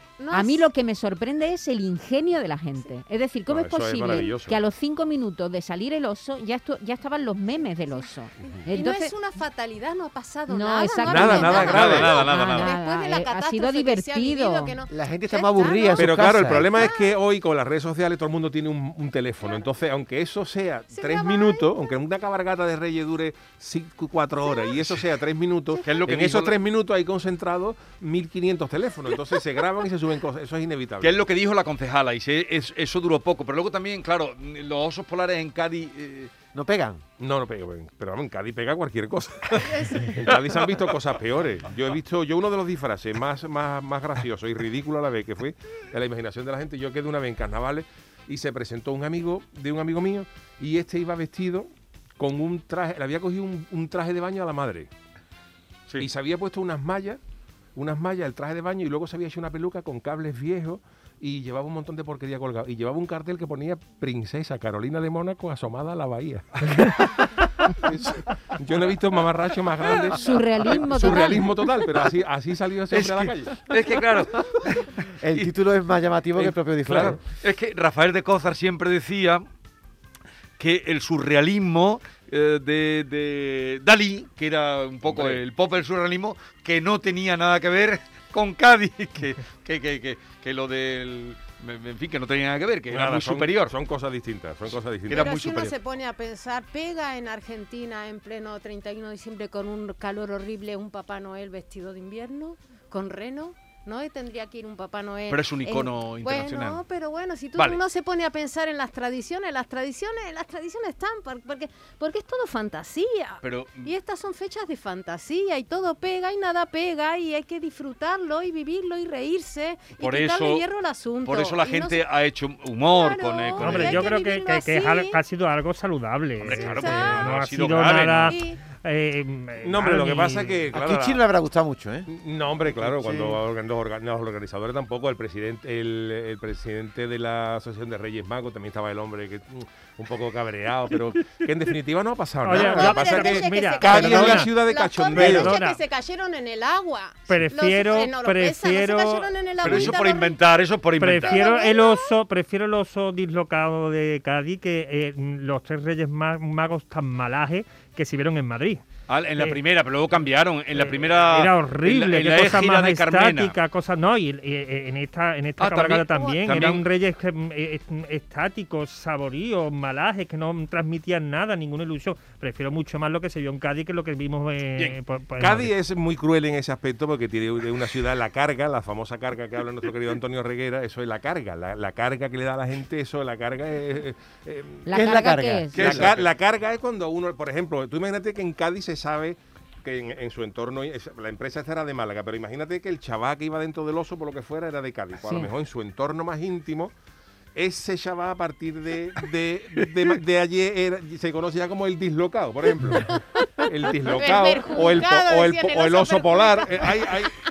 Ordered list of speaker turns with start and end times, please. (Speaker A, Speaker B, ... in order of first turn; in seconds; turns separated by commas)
Speaker A: 0.2-0.7, Speaker B: 0.3-9.1, Speaker C: 3.5-4.6, Speaker A: 8.6-17.1, Speaker B: 10.5-14.7, Speaker C: 11.1-12.1, Speaker D: 11.6-12.7, Speaker E: 14.9-16.9, Speaker C: 16.0-31.2, Speaker A: 20.9-21.8, Speaker D: 25.8-26.6, Speaker D: 31.0-36.3, Speaker E: 36.5-37.0, Speaker C: 37.2-54.9, Speaker A: 39.6-40.0, Speaker D: 40.1-40.4, Speaker C: 56.0-57.2, Speaker C: 57.7-73.6, Speaker B: 70.1-71.5, Speaker D: 72.9-75.5, Speaker E: 75.2-77.2, Speaker D: 76.4-79.4, Speaker D: 80.6-93.7, Speaker C: 85.0-85.4, Speaker C: 92.9-95.3, Speaker D: 95.1-95.7, Speaker A: 95.1-122.0, Speaker D: 105.3-106.8, Speaker D: 113.4-113.9, Speaker D: 120.0-120.7, Speaker D: 121.2-124.1, Speaker A: 122.8-125.2, Speaker F: 123.6-130.6, Speaker D: 126.4-128.4, Speaker A: 126.4-127.4, Speaker A: 128.1-128.6, Speaker C: 129.6-131.2, Speaker E: 130.7-132.1, Speaker C: 132.1-145.6, Speaker E: 132.7-133.4, Speaker F: 142.4-144.5, Speaker A: 142.5-150.4, Speaker E: 144.0-144.3, Speaker F: 145.1-145.8, Speaker F: 147.3-149.3, Speaker D: 149.6-151.5, Speaker F: 150.9-158.8, Speaker A: 151.2-152.1, Speaker D: 159.1-163.6, Speaker F: 160.7-175.7, Speaker D: 165.6-166.8, Speaker C: 175.4-184.8, Speaker B: 184.8-186.0, Speaker E: 184.9-186.2, Speaker C: 185.7-196.9, Speaker D: 185.8-186.2, Speaker C: 197.5-207.4, Speaker A: 204.0-207.2